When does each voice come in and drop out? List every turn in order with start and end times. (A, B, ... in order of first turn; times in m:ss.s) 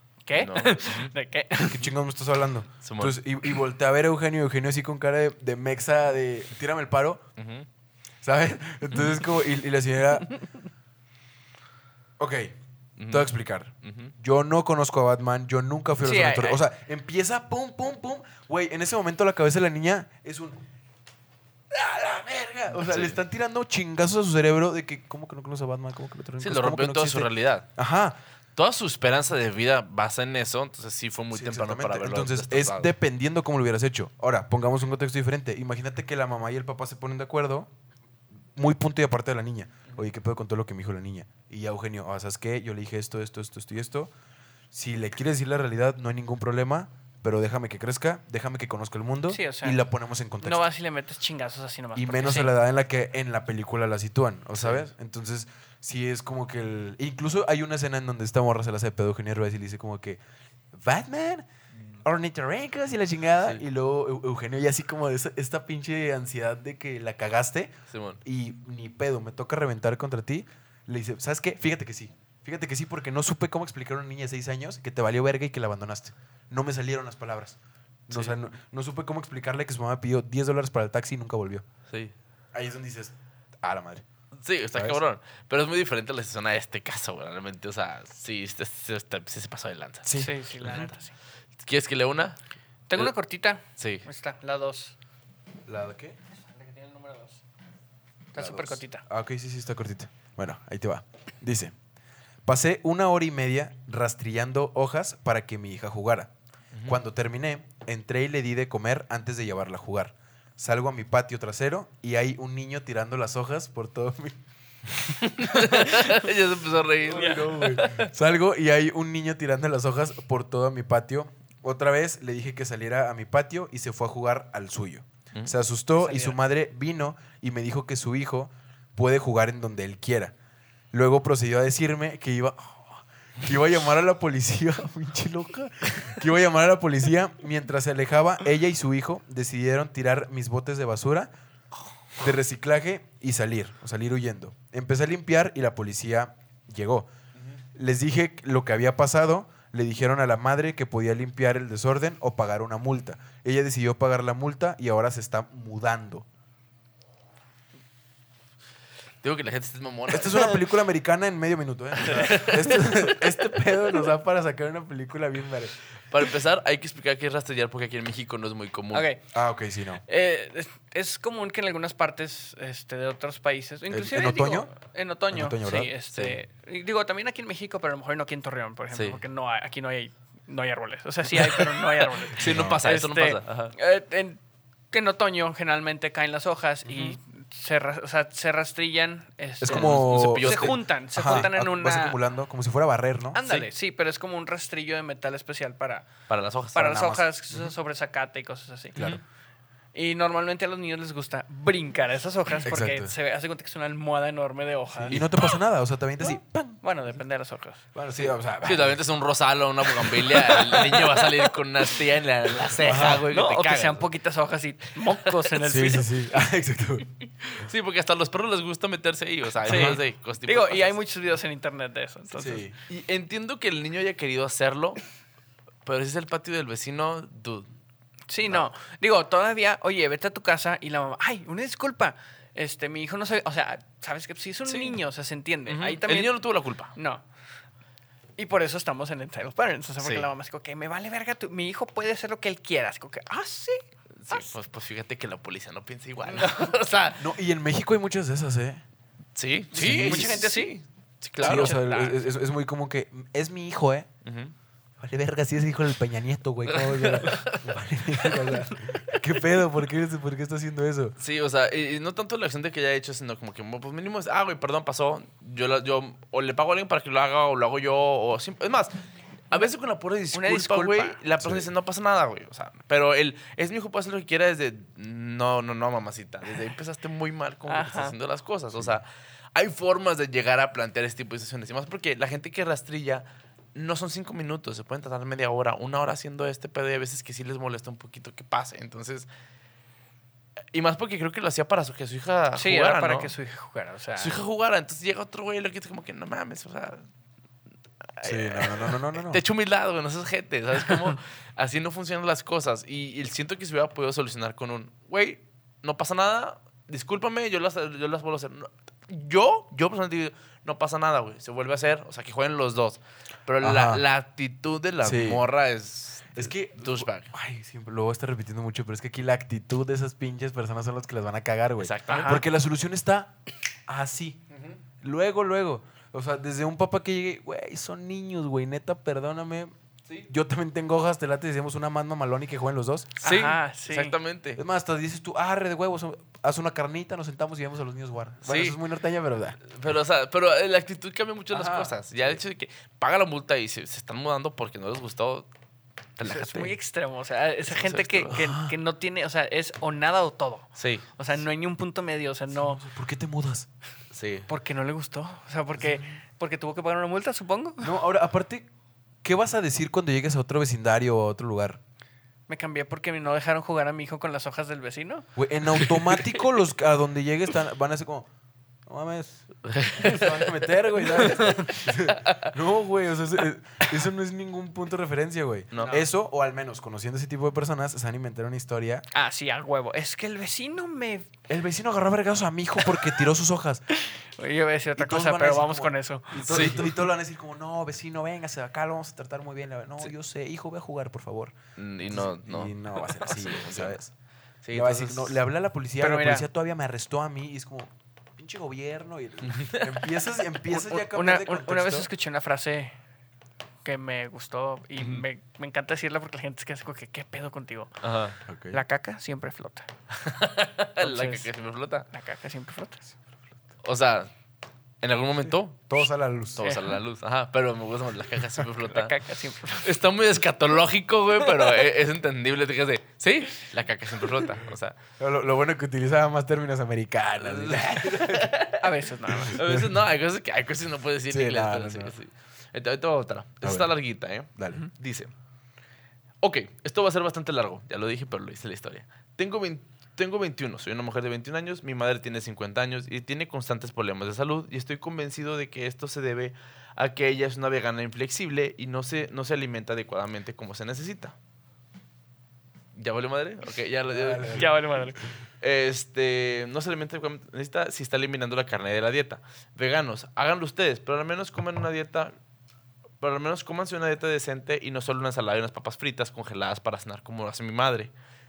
0:00.3-0:01.8 A
0:00.3-0:01.1 B
0:01.6-0:07.2 C
0:02.8-0:03.2 B
0:07.4-0:07.7 B
0:08.2-0:10.3 C
0:12.2-0:12.6 C
0:13.0-0:14.1 B
0:13.1-0:20.6 C
0:16.0-0:16.6 A
0:21.7-0:28.2 C
0:22.7-0:23.2 B
0:26.4-0:27.7 B
0:28.6-0:32.9 B
0:31.3-0:37.7 C
0:38.6-0:44.1 C
0:44.7-0:50.6 C
0:49.3-0:49.8 A
0:50.4-0:52.5 A
0:52.0-1:00.2 C
0:54.5-0:54.9 B
1:00.7-1:01.5 C
1:02.0-1:07.7 C
1:07.9-1:08.2 B
1:08.2-1:21.6 C
1:18.1-1:18.4 B
1:22.5-1:24.0 C
1:24.4-1:30.9 B
1:30.0-1:30.3 C
1:30.2-1:31.1 A
1:31.6-1:32.4 B
1:32.9-1:34.9 A
1:33.8-1:34.0 B
1:35.7-1:36.2 C
1:36.4-1:37.4 A
1:38.3-1:39.0 A
1:38.4-1:41.8 C
1:42.5-1:46.3 C
1:46.7-1:47.0 B
1:46.9-1:56.0 C
1:55.2-1:58.1 B
1:57.0-2:10.4 C
1:57.1-1:57.8 A
2:06.0-2:06.4 A
2:10.9-2:21.3 C
2:22.2-2:27.1 C
2:27.8-2:36.3 C
2:39.2-2:40.5 B
2:40.1-2:45.8 C
2:40.3-2:40.6 A
2:42.0-2:43.2 B
2:42.0-2:42.8 A
2:46.1-2:49.1 B
2:48.9-2:49.3 A
2:49.3-2:50.0 C
2:50.1-3:04.4 A
2:53.9-2:54.7 C
2:55.3-2:55.9 C
2:56.1-2:56.4 B
2:58.9-2:59.2 B
3:01.4-3:01.7 B
3:02.2-3:03.7 B
3:02.4-3:02.8 C
3:04.9-3:12.2 A
3:06.9-3:07.2 B
3:09.6-3:13.4 C
3:09.6-3:11.5 B
3:13.3-3:16.1 A
3:16.3-3:17.2 B
3:16.8-3:19.1 A
3:19.0-3:19.2 C
3:20.0-3:25.2 A
3:22.6-3:23.1 C
3:25.0-3:27.2 C
3:26.8-3:27.8 A
3:28.0-3:29.0 C
3:28.6-3:34.1 B
3:30.5-3:31.4 A
3:32.8-3:33.2 C
3:32.9-3:36.2 A
3:35.6-3:37.0 C
3:37.6-3:41.0 B
3:39.6-3:42.7 A
3:39.7-3:40.0 C
3:42.4-3:42.8 C
3:42.9-3:45.0 B
3:45.8-3:47.7 B
3:48.3-3:56.4 A
3:54.7-3:55.0 B
3:55.7-3:56.9 B
3:56.9-3:57.2 A
3:58.4-4:04.5 A
4:00.0-4:00.3 B
4:04.2-4:07.2 B
4:06.3-4:06.7 A
4:07.2-4:08.8 C
4:09.4-4:11.8 B
4:09.7-4:10.7 A
4:09.8-4:10.4 C
4:11.4-4:12.2 A
4:11.4-4:14.1 C
4:14.2-4:14.5 B
4:15.0-4:21.2 C
4:16.7-4:18.5 B
4:21.2-4:29.0 B
4:29.5-4:49.3 B
4:30.3-4:31.2 A
4:31.4-4:31.7 C
4:37.7-4:38.1 A
4:50.7-4:53.3 B
4:52.6-4:54.4 A
4:54.2-4:57.1 B
4:58.0-5:17.3 B
4:58.2-4:59.4 C
5:13.6-5:14.0 C
5:15.0-5:15.4 C
5:16.3-5:24.4 C
5:21.8-5:22.4 B
5:22.1-5:22.4 A
5:24.5-5:24.8 B
5:25.0-5:29.7 C
5:30.3-5:33.2 C
5:33.2-5:34.6 B
5:33.2-5:34.2 A
5:34.6-5:39.6 C
5:38.4-5:38.8 B
5:39.6-5:45.5 B
5:41.5-5:42.4 C
5:46.2-5:46.7 B
5:46.2-5:52.8 A
5:47.7-5:48.4 B
5:48.3-5:48.8 C
5:50.8-5:51.1 B
5:52.6-5:53.7 C
5:54.2-5:54.5 B
5:54.5-5:58.0 A
5:55.8-5:56.0 C
5:57.8-5:58.7 C
5:59.2-6:01.8 C
6:02.5-6:05.3 A
6:05.4-6:08.3 C
6:05.8-6:06.4 B
6:08.9-6:19.0 C
6:09.6-6:10.6 B
6:11.2-6:12.5 B
6:15.7-6:16.1 B
6:19.1-6:21.3 A
6:21.5-6:23.8 C
6:23.9-6:26.9 A
6:25.0-6:31.6 C
6:26.4-6:26.8 B
6:31.8-6:34.0 B
6:32.1-6:34.1 C
6:34.6-6:35.4 B
6:34.7-6:42.1 C
6:36.0-6:36.5 A
6:39.4-6:40.1 B
6:40.7-6:43.0 A
6:43.8-6:48.0 A
6:45.0-6:45.2 B
6:48.0-6:48.4 B
6:48.5-6:48.8 C
6:48.7-6:49.9 A
6:50.1-6:52.1 B
6:51.0-6:51.5 A
6:52.1-6:53.0 A
6:53.8-6:54.3 B
6:55.0-6:56.0 B
6:55.9-6:56.7 C
6:56.6-6:59.2 B
6:56.6-6:57.0 A
6:58.9-7:00.0 A
6:59.7-7:05.0 B
7:05.2-7:08.6 C
7:07.4-7:15.3 B
7:08.8-7:09.6 A
7:09.3-7:09.9 C
7:11.3-7:12.1 C
7:13.6-7:13.9 C
7:14.5-7:14.8 C
7:16.4-7:31.4 B
7:33.0-7:34.7 B
7:34.1-7:35.1 C
7:34.5-7:35.2 A
7:35.6-7:42.3 B
7:43.2-7:48.1 B